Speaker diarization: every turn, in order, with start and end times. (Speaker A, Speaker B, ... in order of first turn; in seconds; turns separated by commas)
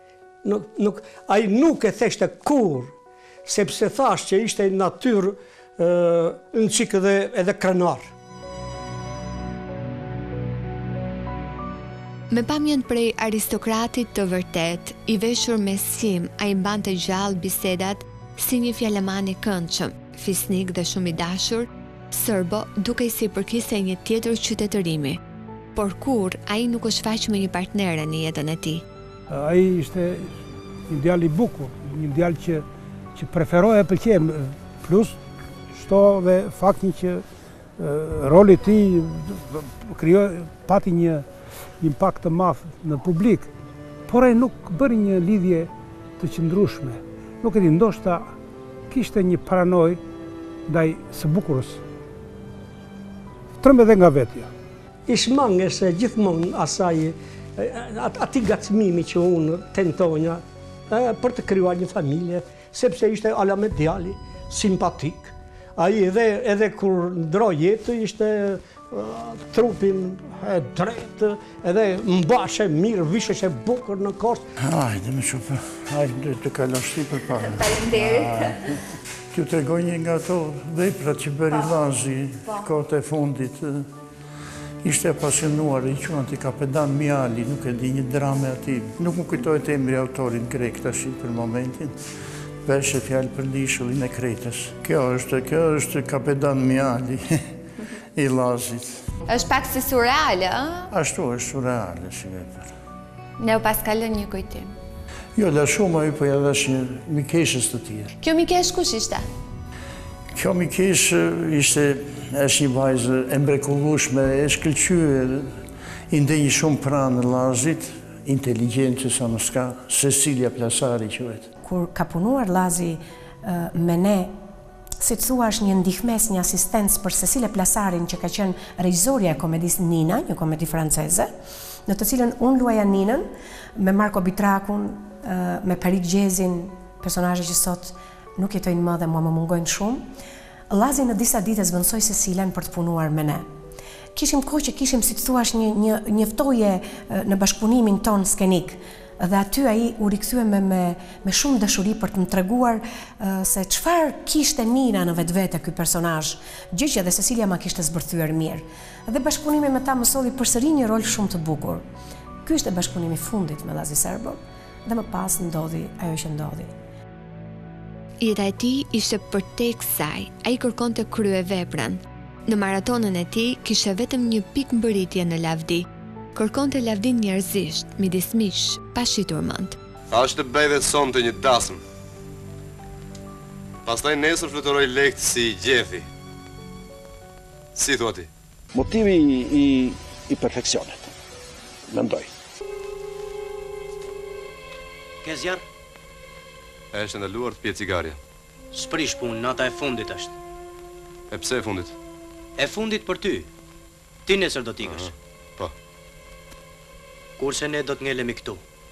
Speaker A: 0.4-2.9, Speaker A: 3.5-8.1, Speaker B: 12.3-25.2, Speaker B: 25.8-28.8, Speaker C: 29.3-30.3, Speaker C: 30.9-32.6, Speaker C: 33.2-35.2, Speaker C: 35.8-37.2, Speaker C: 37.8-41.3, Speaker C: 41.8-43.5, Speaker C: 44.1-48.3, Speaker C: 48.9-50.0, Speaker C: 50.7-51.8, Speaker C: 53.6-54.5, Speaker A: 55.1-74.5, Speaker D: 74.6-78.7, Speaker D: 79.3-83.9, Speaker D: 84.8-91.9, Speaker D: 92.7-97.4, Speaker D: 98.2-99.0, Speaker B: 99.3-100.6, Speaker D: 100.9-102.7, Speaker B: 103.5-104.6, Speaker D: 105.4-108.1, Speaker B: 108.3-109.2, Speaker D: 110.3-115.6, Speaker D: 116.1-121.5, Speaker E: 121.7-124.3, Speaker E: 125.0-131.3, Speaker E: 131.9-133.3, Speaker E: 133.8-140.1, Speaker E: 140.7-143.5, Speaker E: 144.2-161.8, Speaker E: 162.4-166.7, Speaker B: 168.2-179.8, Speaker F: 180.1-181.8, Speaker F: 183.8-186.1, Speaker F: 187.8-188.3, Speaker G: 188.7-191.1, Speaker G: 191.9-192.3, Speaker H: 195.2-195.6, Speaker F: 196.9-198.2, Speaker H: 198.7-200.4, Speaker F: 201.3-201.9, Speaker H: 202.6-203.5, Speaker H: 204.3-205.1, Speaker F: 204.8-205.7, Speaker H: 207.4-208.6